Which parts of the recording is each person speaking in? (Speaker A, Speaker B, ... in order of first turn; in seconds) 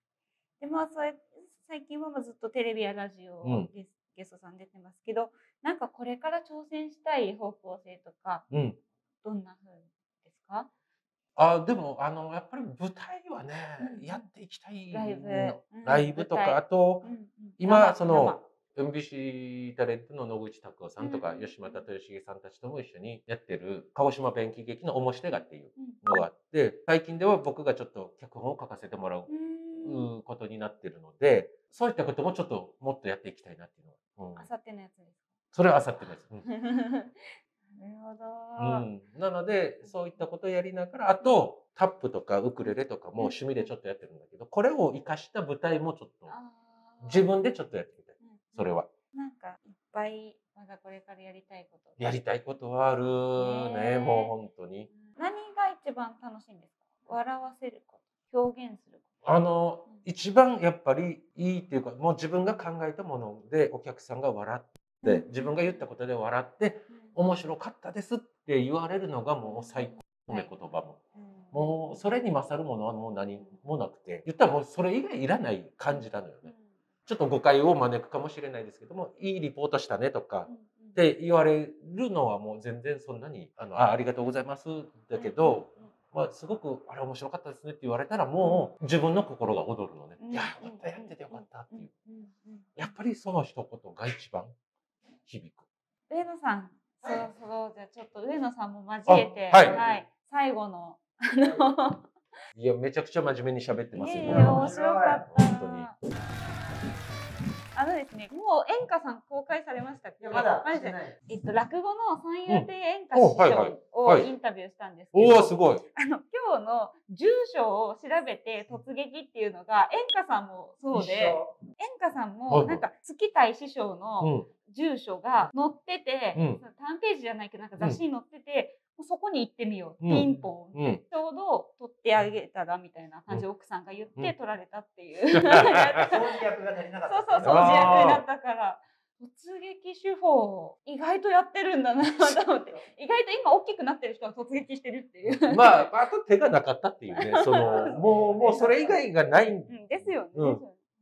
Speaker A: 0.6-8.5, 9.2-10.7, 13.8-14.2, 14.9-18.4, 21.0-21.8, 25.8-26.3, 29.3-30.1, 34.4-35.2, 36.5-38.9, 42.6-43.7, 46.3-47.3, 48.2-52.1, 53.4-54.3, 55.0-59.0, 65.0-65.8, 69.5-70.5, 71.2-72.0, 75.9-76.6, 80.5-81.0, 85.1-85.9, 88.4-88.7, 90.2-92.9, 96.1-102.0, 104.0-105.9, 107.7-136.3, 137.1-145.9, 147.1-147.9, 149.7-150.8
Speaker B: 3.4-3.7, 8.5-8.8, 11.4-34.5, 35.5-36.5, 38.6-46.3, 47.0-48.9, 52.0-54.9, 59.2-71.0, 71.5-76.5, 77.0-91.9, 92.8-94.5, 95.2-95.6, 99.1-99.8, 102.5-105.9, 112.5-114.3, 115.1-115.8, 122.5-122.9, 124.2-124.5, 126.3-126.6, 130.0-131.0, 135.3-136.1, 137.4-138.2, 145.5-150.6
Speaker C: 99.6-100.0, 101.4-101.7, 104.2-105.3, 110.2-111.2, 120.9-121.5, 130.1-130.4, 135.6-138.1, 147.4-149.1